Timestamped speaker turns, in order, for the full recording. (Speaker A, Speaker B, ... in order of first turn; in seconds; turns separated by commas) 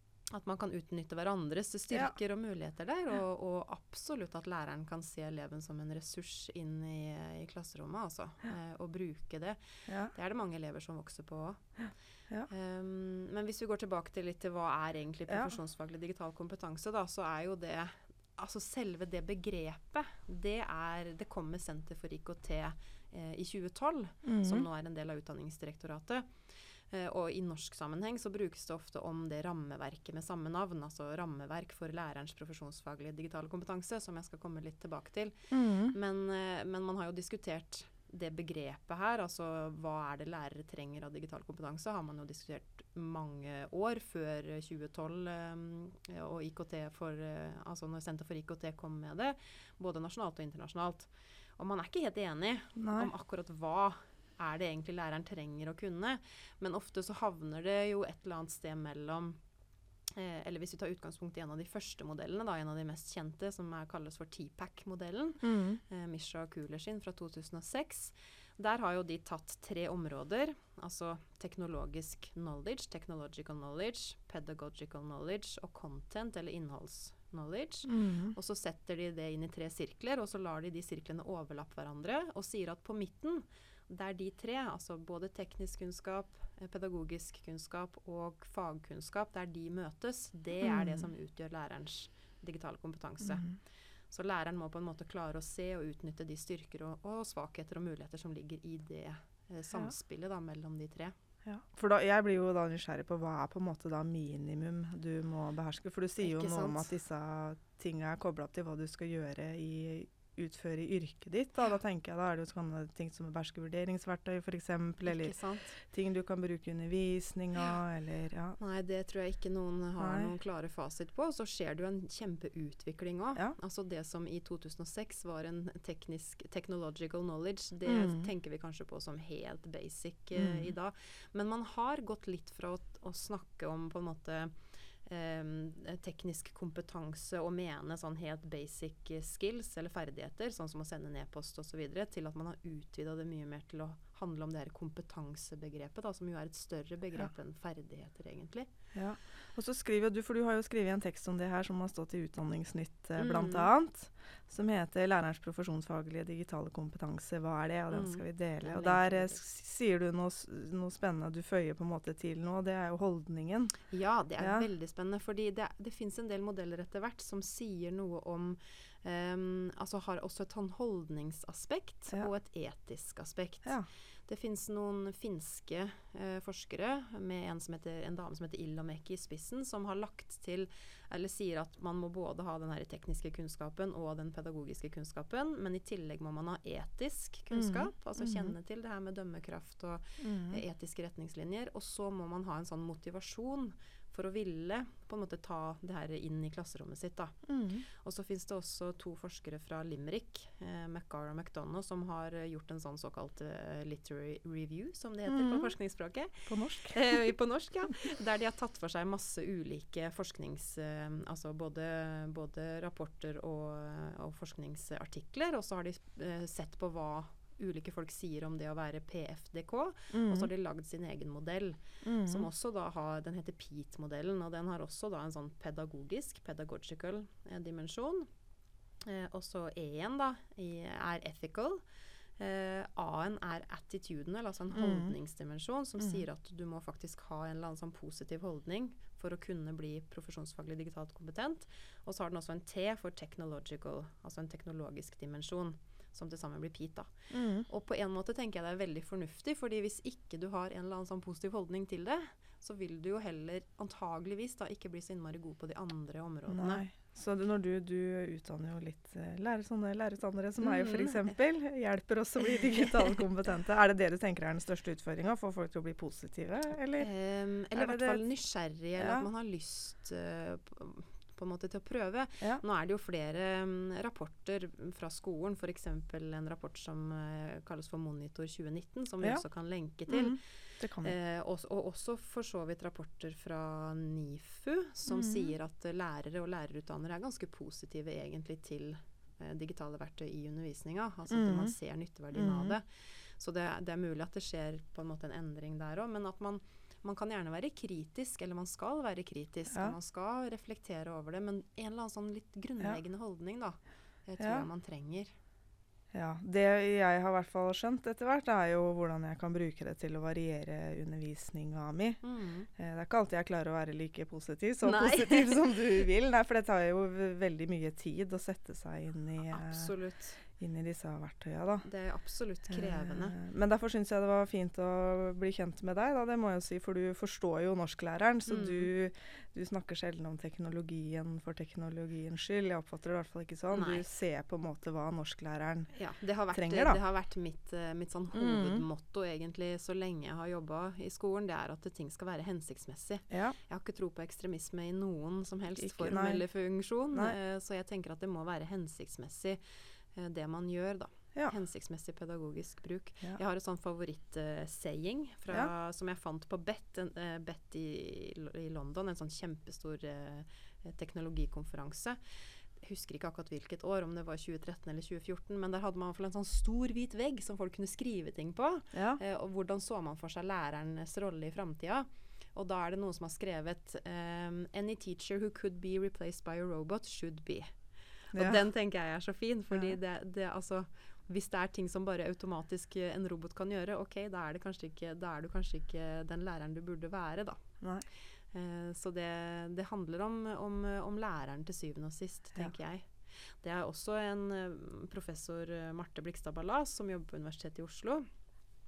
Speaker A: 0.3-11.7, Speaker B: 9.9-10.1, Speaker B: 11.8-12.5, Speaker A: 12.5-59.4, Speaker B: 24.2-24.7, Speaker B: 35.5-36.0, Speaker B: 52.8-53.1, Speaker A: 60.2-93.5, Speaker B: 65.4-65.8, Speaker B: 77.9-78.3, Speaker B: 90.6-91.0, Speaker B: 93.2-93.5, Speaker A: 94.1-101.2, Speaker B: 101.5-118.6, Speaker A: 106.2-106.9, Speaker A: 115.0-115.8, Speaker A: 118.6-148.7, Speaker B: 120.0-120.3, Speaker B: 127.9-128.3, Speaker B: 130.4-130.7, Speaker B: 148.9-163.7, Speaker A: 153.2-153.7, Speaker A: 157.9-159.4, Speaker A: 163.9-228.3, Speaker B: 164.4-164.7, Speaker B: 187.5-188.5, Speaker B: 190.2-190.6, Speaker B: 197.5-197.8, Speaker B: 205.3-205.7, Speaker B: 206.5-207.3, Speaker B: 220.1-220.5, Speaker B: 222.0-222.5, Speaker A: 229.0-231.8, Speaker A: 232.4-256.8, Speaker B: 234.7-235.1, Speaker B: 247.3-247.7, Speaker B: 256.5-267.1, Speaker A: 260.6-261.3, Speaker A: 262.6-263.2, Speaker A: 267.0-305.3, Speaker B: 267.8-268.2, Speaker B: 269.0-269.3, Speaker B: 280.1-281.1, Speaker B: 285.1-285.5, Speaker B: 291.3-291.7, Speaker B: 292.3-292.8, Speaker B: 304.4-304.7, Speaker B: 306.1-312.2, Speaker A: 312.2-312.7, Speaker B: 312.8-319.9, Speaker A: 314.8-315.8, Speaker A: 319.5-320.4, Speaker B: 320.5-321.9, Speaker A: 321.8-323.4, Speaker B: 322.7-335.9, Speaker A: 328.5-328.9, Speaker A: 333.7-334.1, Speaker A: 335.9-349.6, Speaker B: 336.5-337.0, Speaker B: 338.3-338.9, Speaker B: 343.3-343.6, Speaker B: 345.8-346.4, Speaker A: 350.1-377.8, Speaker B: 368.9-369.2, Speaker A: 378.3-387.6, Speaker B: 378.3-378.6, Speaker B: 387.8-388.1, Speaker A: 388.5-398.3